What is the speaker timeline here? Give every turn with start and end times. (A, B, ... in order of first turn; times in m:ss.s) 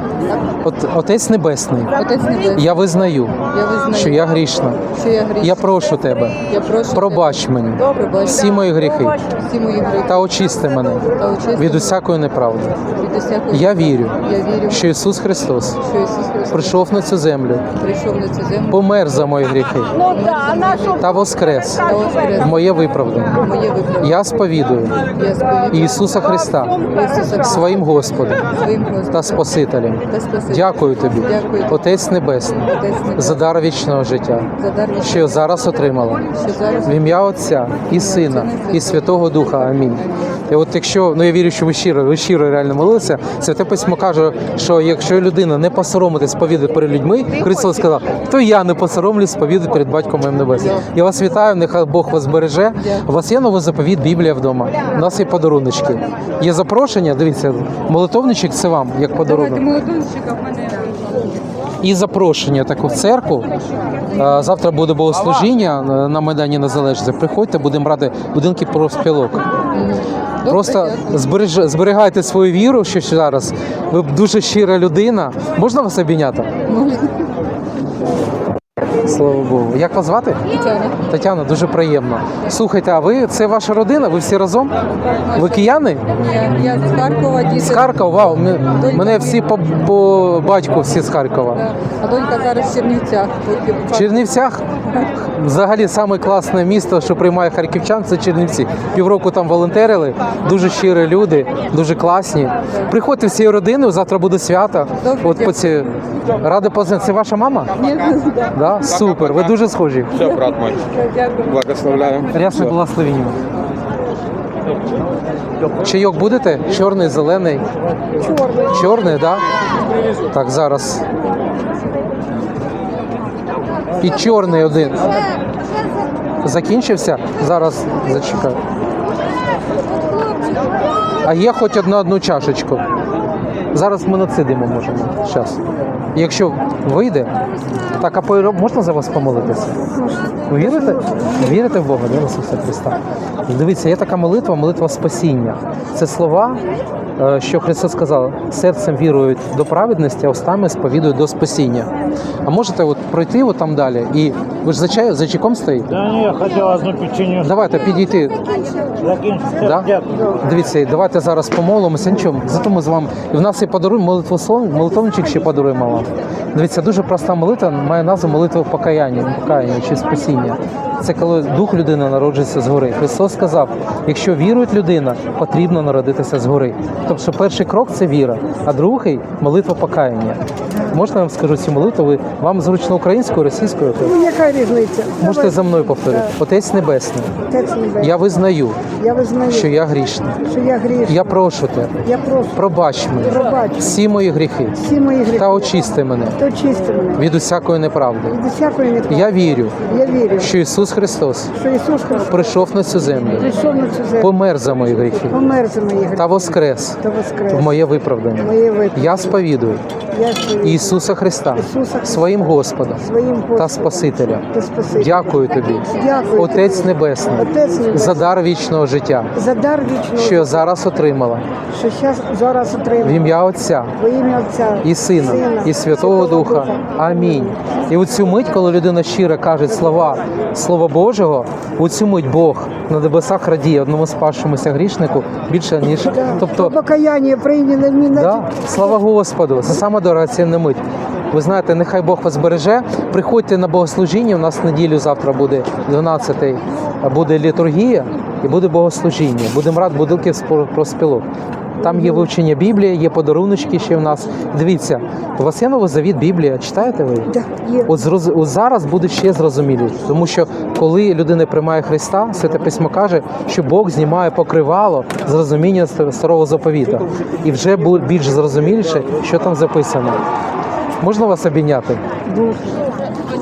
0:00.6-0:02.0 A
0:01.9-0:02.6 B
0:02.5-0:04.8 A
0:03.5-0:04.2 B
0:04.9-0:05.7 B
0:05.4-0:09.2 A
0:06.4-0:08.6 B
0:09.2-0:10.2 B
0:10.0-0:12.8 A
0:11.1-0:11.9 B
0:12.9-0:14.8 B
0:13.5-0:15.8 A
0:15.8-0:16.8 B
0:16.5-0:17.6 A
0:17.7-0:18.8 B
0:18.7-0:20.0 A
0:20.0-0:21.1 B
0:21.0-0:23.4 A
0:21.8-0:22.5 B
0:23.4-0:24.1 B
0:24.0-0:25.0 A
0:25.1-0:26.0 B
0:25.7-0:26.8 A
0:26.8-0:27.6 B
0:27.3-0:28.5 A
0:28.4-0:29.4 B
0:29.1-0:34.5 A
0:30.1-0:31.9 B
0:32.6-0:33.4 B
0:34.6-0:35.4 B
0:35.0-0:59.6 A
0:36.3-0:36.9 B
0:37.9-0:40.1 B
0:59.3-1:00.9 B
1:01.8-1:03.5 A
1:04.2-1:09.5 A
1:09.7-1:11.2 B
1:10.4-1:16.5 A
1:16.7-1:17.2 B
1:19.0-1:20.4 A
1:20.5-1:21.0 B
1:21.1-1:24.7 A
1:25.0-1:27.9 B
1:25.4-1:26.0 A
1:27.5-1:31.6 A
1:28.7-1:29.4 B
1:31.6-1:34.2 B
1:33.9-1:47.7 A
1:45.0-1:45.7 B
1:47.8-1:48.5 B
1:48.5-1:50.3 A
1:50.2-1:50.7 B
1:50.4-1:50.7 C
1:51.5-1:52.3 C
1:52.3-1:53.4 A
1:55.8-1:57.6 A
1:58.6-1:59.5 A
2:00.3-2:01.0 A
2:04.0-2:05.2 A
2:06.4-2:08.6 A
2:11.2-2:12.8 A
2:13.7-2:15.6 A
2:16.1-2:17.3 A
2:18.0-2:19.8 A
2:20.5-2:26.6 A
2:27.2-2:31.9 A
2:32.4-2:35.9 A
2:35.9-2:37.5 D
2:37.4-2:38.4 A
2:38.9-2:40.2 D
2:39.6-3:04.2 A
3:04.2-3:05.4 C
3:05.2-3:07.3 A
3:07.5-3:08.0 C
3:08.0-3:08.8 A
3:09.0-3:09.4 C
3:09.4-3:10.4 A
3:10.5-3:11.0 C
3:11.0-3:12.0 A
3:12.0-3:12.5 C
3:12.5-3:16.4 A
3:13.4-3:13.8 C
3:14.8-3:15.3 C
3:16.4-3:17.2 C
3:17.1-3:18.4 A
3:18.4-3:19.1 C
3:19.1-3:21.5 A
3:19.9-3:20.4 C
3:21.6-3:22.3 C
3:22.3-3:23.6 A
3:23.6-3:24.1 C
3:24.1-3:25.4 A
3:25.4-3:26.1 C
3:26.1-3:29.8 A
3:27.0-3:27.5 C
3:28.4-3:28.9 C
3:30.1-3:30.6 C
3:30.6-3:39.4 A
3:31.6-3:32.0 C
3:33.1-3:33.6 C
3:34.5-3:35.2 C
3:36.0-3:36.4 C
3:37.5-3:38.1 C
3:39.4-3:40.1 C
3:40.1-3:41.4 A
3:41.7-3:43.0 C
3:43.0-3:44.0 A
3:44.0-3:44.8 C
3:44.8-3:56.8 A
3:56.2-3:58.1 C
3:58.1-4:11.2 A
4:11.8-4:17.3 A
4:17.8-4:30.2 A
4:31.0-4:32.0 A
4:32.3-4:32.8 C